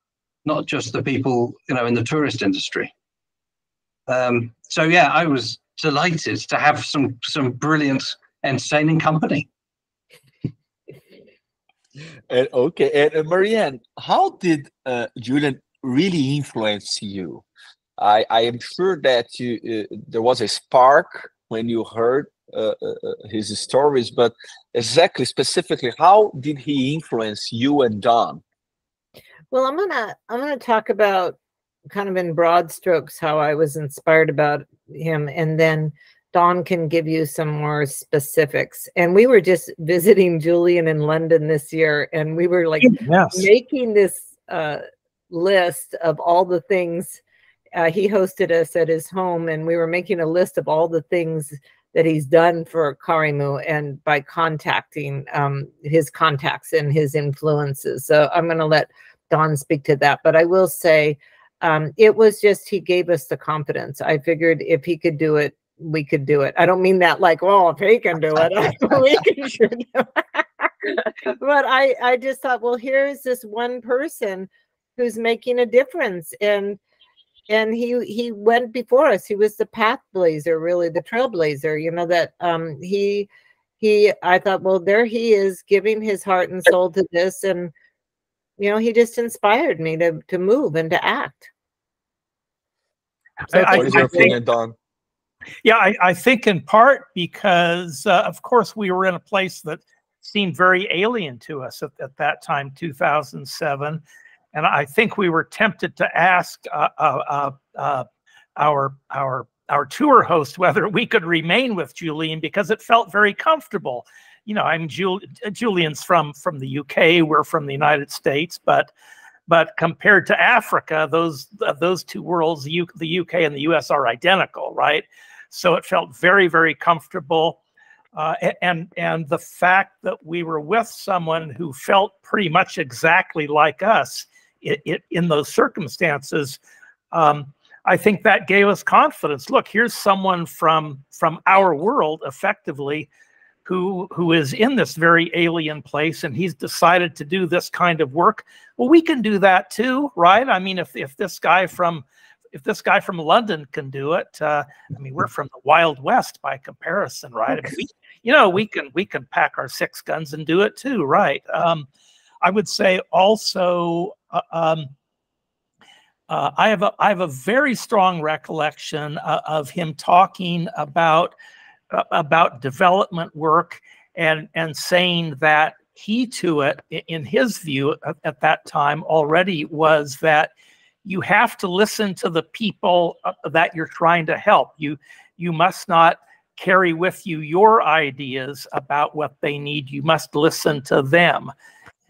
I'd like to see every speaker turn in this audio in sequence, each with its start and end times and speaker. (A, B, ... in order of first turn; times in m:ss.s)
0:00.4-0:02.9 A
0:04.1-0:09.5 A
0:12.3-0:17.4 B
0:18.0-0:28.4 B
0:29.5-0:31.4 C
0:31.9-0:47.2 C
0:42.8-0:43.5 D
0:47.8-1:16.8 C
1:17.5-1:23.3 C
1:23.8-1:27.7 C
1:28.6-1:31.5 C
1:33.5-1:34.4 D
1:33.5-1:34.7 B
1:33.6-1:33.8 C
1:35.6-1:44.0 D
1:44.5-1:48.0 D
1:48.6-1:58.9 D
1:59.5-2:07.6 D
2:08.1-2:16.6 D
2:17.1-2:23.1 D
2:23.6-2:41.9 D
2:42.4-2:44.9 D
2:46.3-2:51.3 D
2:51.9-3:00.5 D
3:01.0-3:11.5 D